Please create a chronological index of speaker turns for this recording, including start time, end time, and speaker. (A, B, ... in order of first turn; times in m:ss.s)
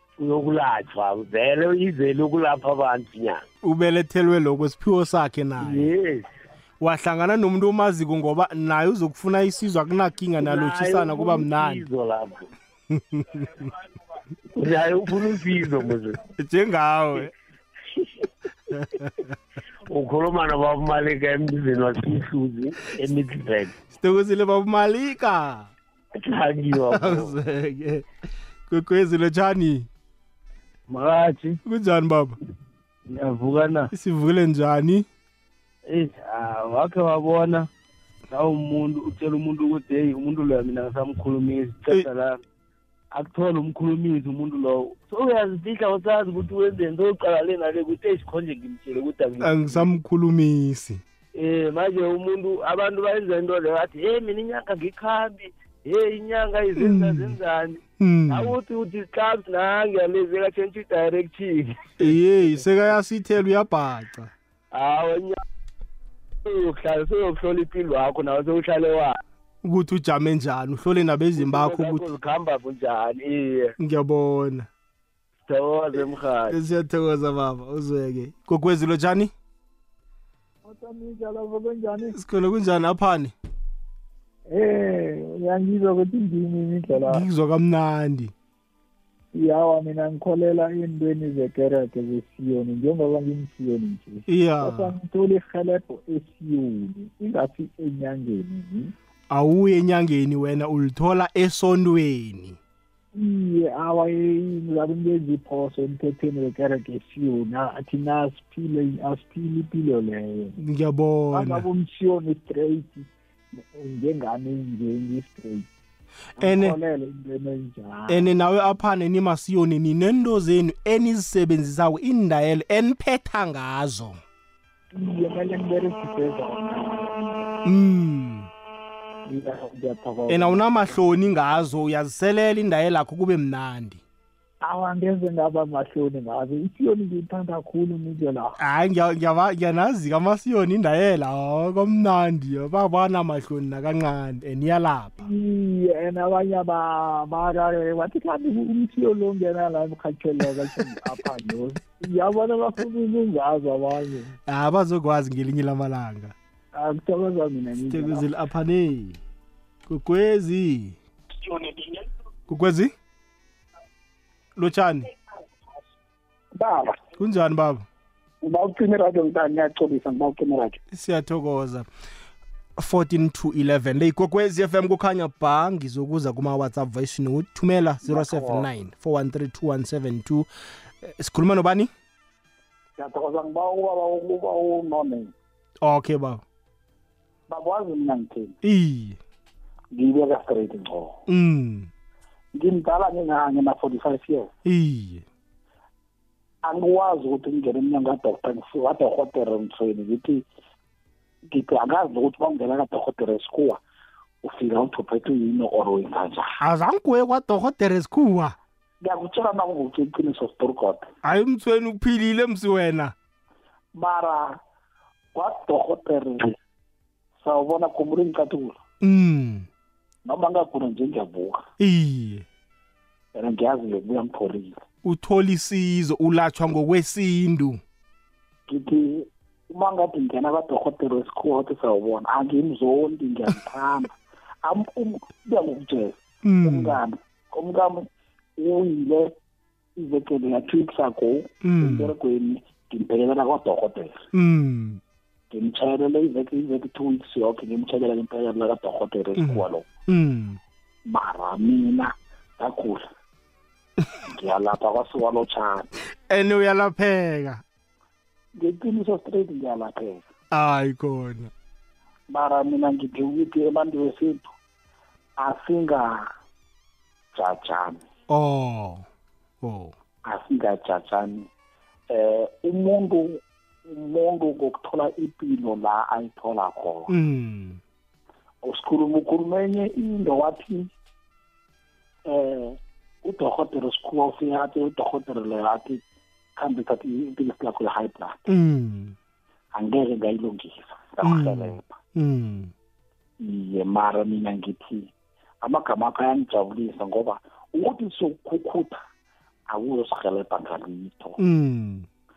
0:00.2-0:03.4 A
0:03.6-0:05.9 B
0:05.6-0:06.3 A
0:06.8-0:11.8 B
0:10.4-0:12.5 A
0:13.0-0:13.4 B
0:14.5-0:16.2 A
0:16.3-0:17.3 B
0:18.7-0:19.1 B
0:19.9-0:23.7 A
0:23.9-0:25.7 B
0:26.2-0:27.3 A
0:26.9-0:28.0 B
0:28.7-0:29.9 B
0:30.9-0:31.6 C
0:31.6-0:32.4 B
0:33.1-0:33.9 C
0:33.9-0:35.0 B
0:35.9-0:37.6 C
0:38.3-0:42.4 C
0:43.1-0:49.9 C
0:49.4-0:51.0 B
0:51.4-1:01.8 C
0:56.8-0:57.4 B
0:58.0-0:58.6 B
1:02.0-1:04.3 B
1:04.7-1:05.4 C
1:06.4-1:09.1 C
1:09.6-1:12.1 B
1:11.4-1:13.7 C
1:13.8-1:14.7 B
1:15.5-1:16.5 C
1:16.5-1:19.3 B
1:20.6-1:22.1 D
1:22.1-1:23.3 B
1:24.5-1:27.2 D
1:27.1-1:28.3 B
1:29.3-1:38.9 D
1:34.3-1:34.9 B
1:39.3-1:42.6 B
1:43.1-1:50.6 D
1:50.6-1:51.6 B
1:51.3-1:53.1 D
1:53.7-1:55.6 D
1:56.4-1:58.3 D
1:56.4-1:56.8 B
1:58.1-2:04.2 B
2:04.9-2:07.4 D
2:07.6-2:08.5 B
2:09.3-2:10.9 D
2:10.3-2:14.0 B
2:14.6-2:18.5 D
2:18.6-2:25.3 B
2:25.2-2:34.3 D
2:34.5-2:36.3 B
2:36.8-2:38.3 D
2:37.9-2:39.2 B
2:39.9-2:41.0 B
2:42.5-2:42.9 B
2:44.6-2:45.1 B
2:46.5-2:47.0 E
2:47.2-2:47.8 B
2:48.4-2:50.8 E
2:50.9-2:51.8 B
2:52.8-3:00.5 B
3:01.0-3:01.9 B
3:03.0-3:05.3 E
3:05.8-3:06.4 B
3:07.5-3:08.5 E
3:08.6-3:09.2 B
3:09.9-3:11.2 E
3:11.3-3:11.9 B
3:12.5-3:14.5 E
3:14.6-3:15.2 B
3:16.6-3:20.4 E
3:21.5-3:23.8 E
3:24.4-3:26.5 E
3:26.6-3:28.6 B
3:29.0-3:31.1 E
3:31.2-3:33.1 B
3:33.9-3:34.6 E
3:35.3-3:36.5 E
3:37.4-3:38.8 E
3:39.0-3:39.7 B
3:40.2-3:41.6 E
3:41.8-3:42.4 B
3:43.3-3:44.8 E
3:45.0-3:47.8 B
3:48.7-3:58.0 E
3:56.4-3:57.0 B
3:58.6-3:59.3 E
4:00.0-4:04.2 E
4:01.6-4:02.1 B
4:04.3-4:05.0 B
4:05.5-4:09.8 E
4:09.4-4:10.6 B
4:11.1-4:13.0 E
4:14.3-4:15.9 E
4:16.3-4:17.6 B
4:18.6-4:20.2 E
4:20.5-4:21.5 B
4:22.3-4:24.5 E
4:25.4-4:26.3 E
4:27.3-4:28.0 E
4:28.3-4:29.0 B
4:29.6-4:29.9 B
4:30.3-4:31.5 E
4:32.1-4:37.1 E
4:37.1-4:37.8 B
4:38.6-4:40.9 E
4:42.3-4:46.0 E
4:46.6-4:48.4 E
4:48.5-4:49.2 B
4:49.7-4:51.9 E
4:51.2-4:52.7 B
4:53.4-4:55.1 E
4:55.6-4:59.0 E
4:59.7-5:01.4 E
5:01.4-5:02.1 B